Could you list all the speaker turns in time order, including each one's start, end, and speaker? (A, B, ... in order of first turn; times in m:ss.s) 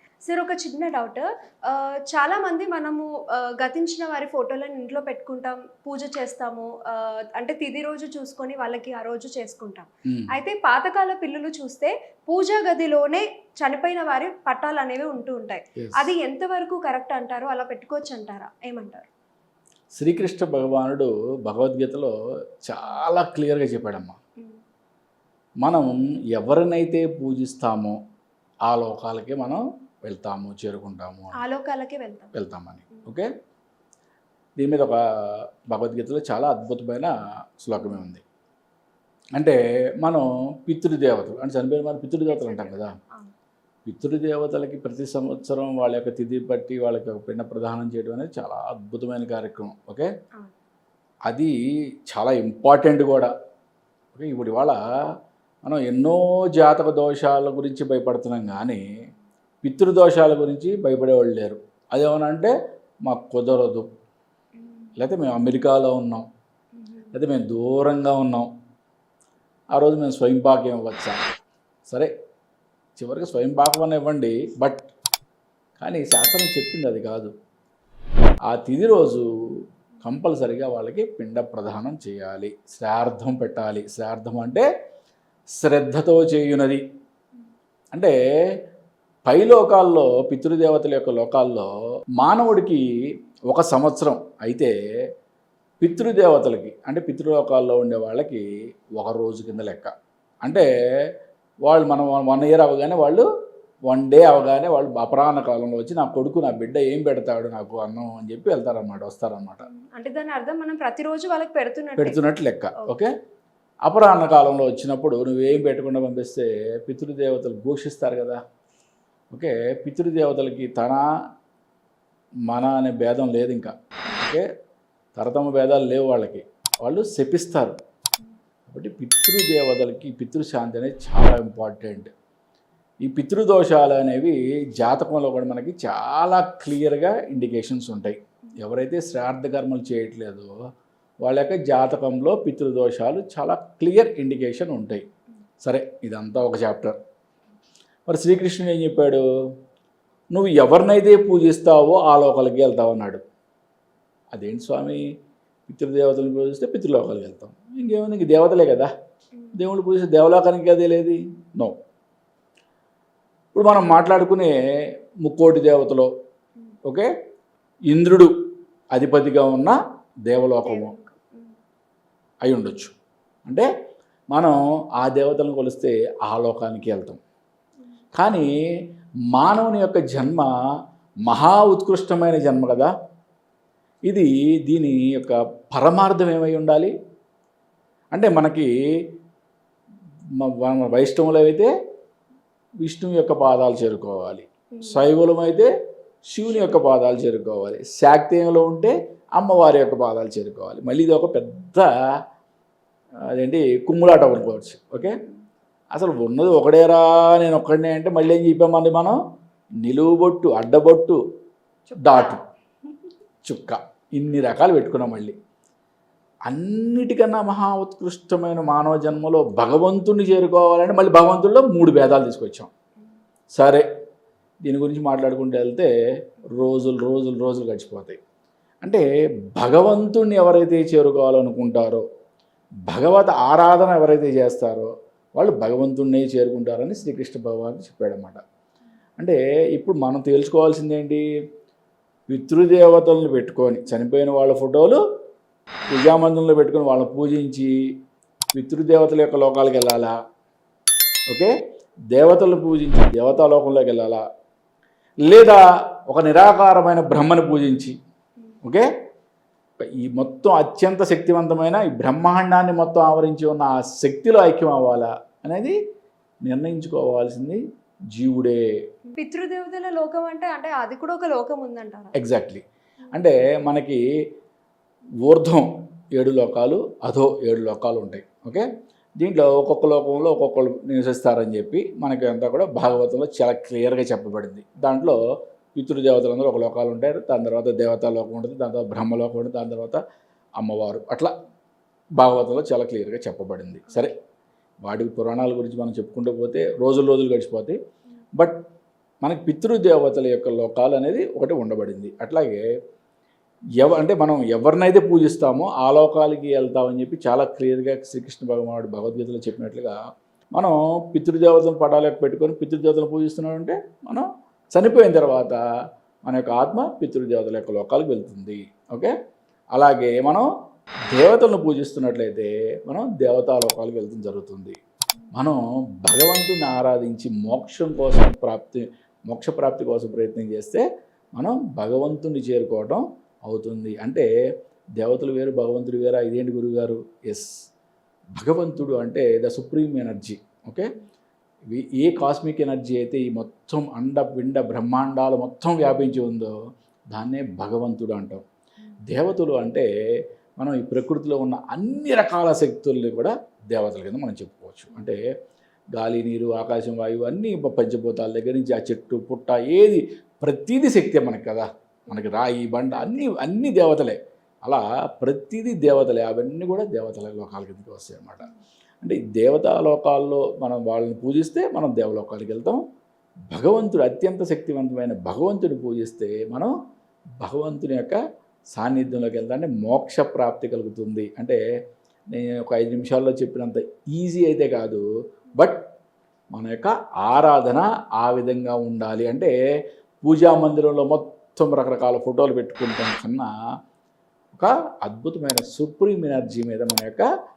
0:00.2-0:19.1 A
0:15.8-0:16.1 B
0:20.0-0:22.1 B
0:22.6-0:24.2 B
0:25.6-0:28.0 B
0:28.7-0:31.4 B
0:31.4-0:32.3 A
0:32.3-0:33.3 B
0:34.6-0:35.0 B
0:35.7-0:38.2 B
0:39.4-0:42.9 B
0:42.3-0:43.3 A
0:43.8-0:50.1 B
0:51.3-0:51.6 B
0:52.1-0:53.3 B
0:54.1-0:54.8 B
0:55.6-0:58.8 B
0:59.6-1:02.5 B
1:03.0-1:03.9 B
1:04.6-1:04.9 A
1:05.0-1:06.2 B
1:06.8-1:07.1 A
1:07.1-1:08.5 B
1:09.7-1:11.3 B
1:11.8-1:12.1 B
1:13.0-1:14.9 B
1:15.8-1:17.3 B
1:18.5-1:19.2 B
1:20.0-1:24.6 B
1:25.6-1:26.8 B
1:29.2-1:32.8 B
1:33.5-1:34.7 B
1:35.8-1:40.7 B
1:41.6-1:43.2 B
1:43.9-1:49.6 B
1:49.6-1:52.2 A
1:52.0-1:53.1 B
1:53.8-1:58.4 B
1:59.3-2:01.0 B
2:02.5-2:04.4 B
2:05.1-2:07.7 B
2:08.7-2:12.1 B
2:13.0-2:20.5 B
2:21.2-2:25.0 B
2:25.6-2:27.0 B
2:28.1-2:29.2 B
2:30.3-2:33.2 B
2:34.3-2:35.0 B
2:35.7-2:38.9 B
2:39.5-2:41.7 B
2:43.5-2:44.5 B
2:45.2-2:46.1 B
2:46.8-2:47.1 B
2:47.9-2:48.3 B
2:48.9-2:49.8 B
2:50.3-2:50.9 B
2:50.6-2:51.5 A
2:52.4-2:52.9 B
2:54.3-2:57.2 B
2:58.1-2:58.5 B
2:59.3-3:00.5 B
3:01.2-3:02.9 B
3:04.1-3:06.9 B
3:08.1-3:08.7 B
3:10.4-3:11.7 B
3:12.8-3:15.7 B
3:14.7-3:15.0 A
3:16.3-3:21.9 B
3:23.3-3:25.2 B
3:25.9-3:29.2 B
3:29.8-3:31.2 B
3:32.0-3:32.4 B
3:32.1-3:32.4 A
3:33.4-3:35.3 B
3:36.5-3:42.7 B
3:43.5-3:43.8 B
3:44.6-3:45.9 B
3:46.5-3:48.2 B
3:48.8-3:52.0 B
3:52.9-3:58.4 B
3:59.2-4:01.2 B
4:02.3-4:05.0 B
4:05.9-4:07.7 B
4:08.5-4:10.1 B
4:12.1-4:14.2 B
4:15.2-4:17.9 B
4:20.0-4:25.8 B
4:26.4-4:27.6 B
4:28.1-4:28.6 B
4:29.1-4:32.1 A
4:32.2-4:34.0 B
4:35.2-4:38.7 B
4:39.2-4:45.2 B
4:45.7-4:50.0 B
4:50.6-4:51.3 B
4:52.2-4:54.1 B
4:54.8-4:57.8 B
4:59.2-5:02.6 B
5:03.8-5:10.0 B
5:10.5-5:15.6 B
5:16.2-5:19.1 B
5:19.7-5:20.4 B
5:21.1-5:24.8 B
5:25.3-5:34.3 B
5:35.0-5:37.5 B
5:38.4-5:40.9 B
5:41.7-5:46.5 B
5:47.1-5:48.4 B
5:49.1-5:49.9 B
5:50.6-5:55.2 B
5:55.9-6:08.5 B
6:02.9-6:03.3 A
6:09.0-6:12.8 B
6:13.5-6:16.7 B
6:17.4-6:18.2 B
6:18.7-6:21.6 B
6:22.3-6:25.8 B
6:26.5-6:29.5 B
6:30.2-6:33.5 B
6:34.5-6:37.2 B